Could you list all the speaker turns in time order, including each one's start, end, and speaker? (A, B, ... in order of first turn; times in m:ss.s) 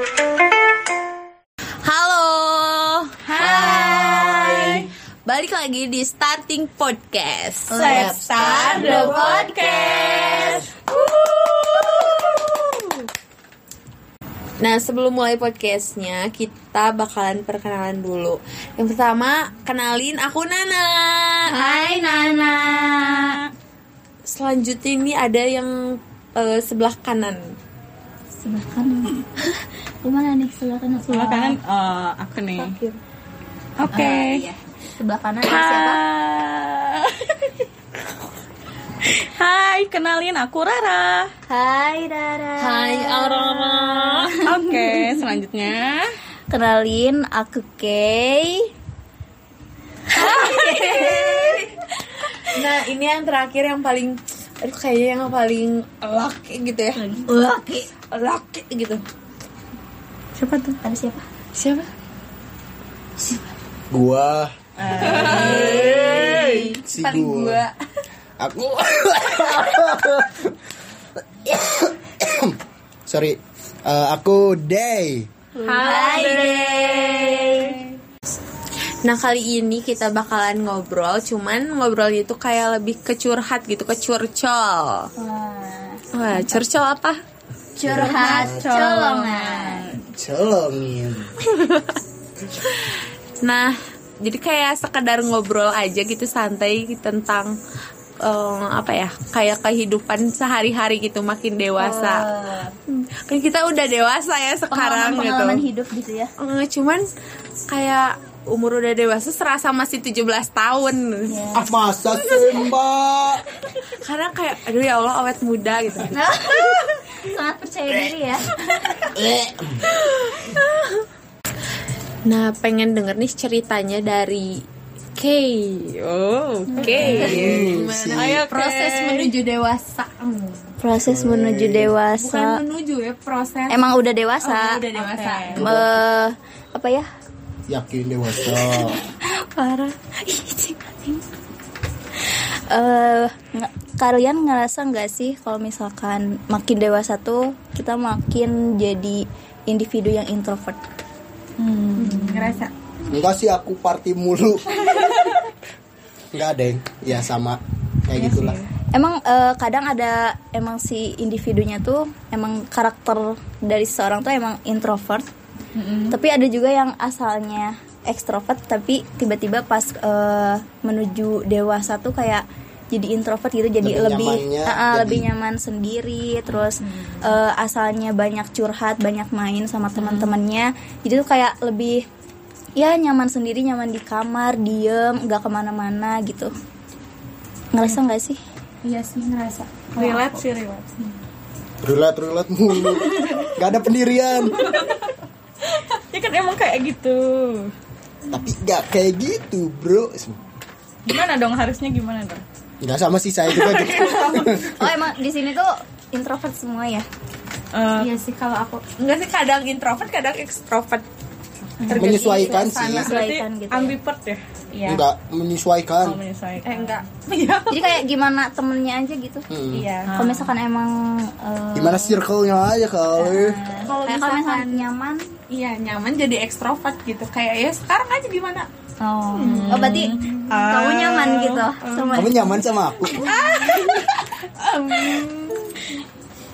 0:01.8-0:12.4 A
0:03.3-0:04.7 B
0:03.4-0:04.3 C
0:03.7-0:04.5 D
0:07.7-0:10.6 C
0:07.7-0:10.6 B
0:14.6-0:22.0 A
0:21.5-0:23.4 C
0:22.9-0:23.5 B
0:24.3-0:27.6 A
0:28.4-0:29.2 C
0:30.0-0:31.6 C
0:31.1-0:32.8 B
0:32.6-0:33.0 C
0:33.8-0:34.4 B
0:33.9-0:36.0 C
0:35.4-0:37.6 B
0:39.0-0:41.3 B
0:41.5-0:44.6 C
0:42.6-0:44.4 A
0:44.4-0:46.2 B
0:46.5-0:48.7 C
0:50.1-0:51.8 C
0:50.2-0:51.6 A
0:52.5-0:57.2 A
0:57.0-0:57.9 C
0:58.0-0:59.0 A
1:00.4-1:00.7 B
1:00.8-1:01.2 C
1:01.5-1:01.9 A
1:03.9-1:05.9 D
1:04.8-1:06.6 B
1:05.0-1:07.7 A
1:05.0-1:06.7 C
1:06.8-1:07.6 D
1:08.4-1:10.5 D
1:11.2-1:15.3 D
1:15.5-1:17.8 C
1:15.6-1:17.8 B
1:15.8-1:16.5 A
1:19.0-1:25.1 A
1:25.2-1:26.6 C
1:26.1-1:27.2 A
1:27.8-1:29.8 C
1:27.8-1:28.8 D
1:28.0-1:30.0 B
1:30.1-1:31.3 D
1:31.4-1:32.0 A
1:32.6-1:37.6 A
1:38.2-1:42.2 A
1:41.8-1:42.7 C
1:42.9-1:45.6 A
1:44.7-1:46.3 C
1:46.4-1:47.1 A
1:47.7-1:51.6 A
1:51.3-1:51.7 C
1:51.5-1:53.4 D
1:54.0-1:56.1 A
1:56.1-1:59.1 C
1:59.1-1:59.9 D
2:00.1-2:01.0 A
2:02.2-2:04.6 A
2:05.1-2:10.7 A
2:06.7-2:09.3 B
2:06.9-2:08.4 D
2:07.0-2:07.4 C
2:10.8-2:12.6 C
2:11.0-2:11.9 D
2:12.2-2:13.8 A
2:13.7-2:14.8 C
2:14.4-2:15.6 A
2:14.9-2:15.6 B
2:15.5-2:16.0 D
2:15.6-2:17.1 C
2:17.7-2:19.0 D
2:18.4-2:21.2 C
2:22.2-2:30.8 C
2:31.6-2:32.6 B
2:31.9-2:32.7 A
2:33.1-2:35.0 D
2:36.3-2:38.6 D
2:38.2-2:38.7 B
2:38.9-2:45.3 C
2:45.8-2:46.2 B
2:46.1-3:02.0 C
2:53.8-2:55.3 D
3:02.8-3:06.5 C
3:07.7-3:08.4 C
3:08.8-3:10.5 A
3:10.0-3:11.0 B
3:11.8-3:14.6 D
3:12.9-3:13.5 B
3:14.4-3:15.1 B
3:15.6-3:17.7 B
3:18.3-3:20.4 D
3:21.1-3:22.4 B
3:22.8-3:25.0 D
3:23.5-3:24.6 B
3:24.7-3:27.1 C
3:27.7-3:28.1 B
3:28.0-3:31.1 A
3:31.8-3:32.1 B
3:31.8-3:33.2 A
3:31.9-3:34.0 C
3:31.9-3:33.1 D
3:32.9-3:34.4 B
3:34.7-3:35.0 A
3:34.8-3:36.2 D
3:36.0-3:37.0 B
3:36.6-3:38.0 A
3:37.7-3:39.5 C
3:39.5-3:39.9 D
3:39.7-3:40.1 A
3:40.0-3:40.5 B
3:40.1-3:42.2 C
3:41.8-3:43.6 D
3:43.2-3:45.3 C
3:43.8-3:44.9 A
3:45.5-3:48.7 A
3:49.0-3:52.5 C
3:49.3-3:52.3 A
3:49.4-3:50.4 B
3:52.1-3:53.3 D
3:53.1-3:55.8 A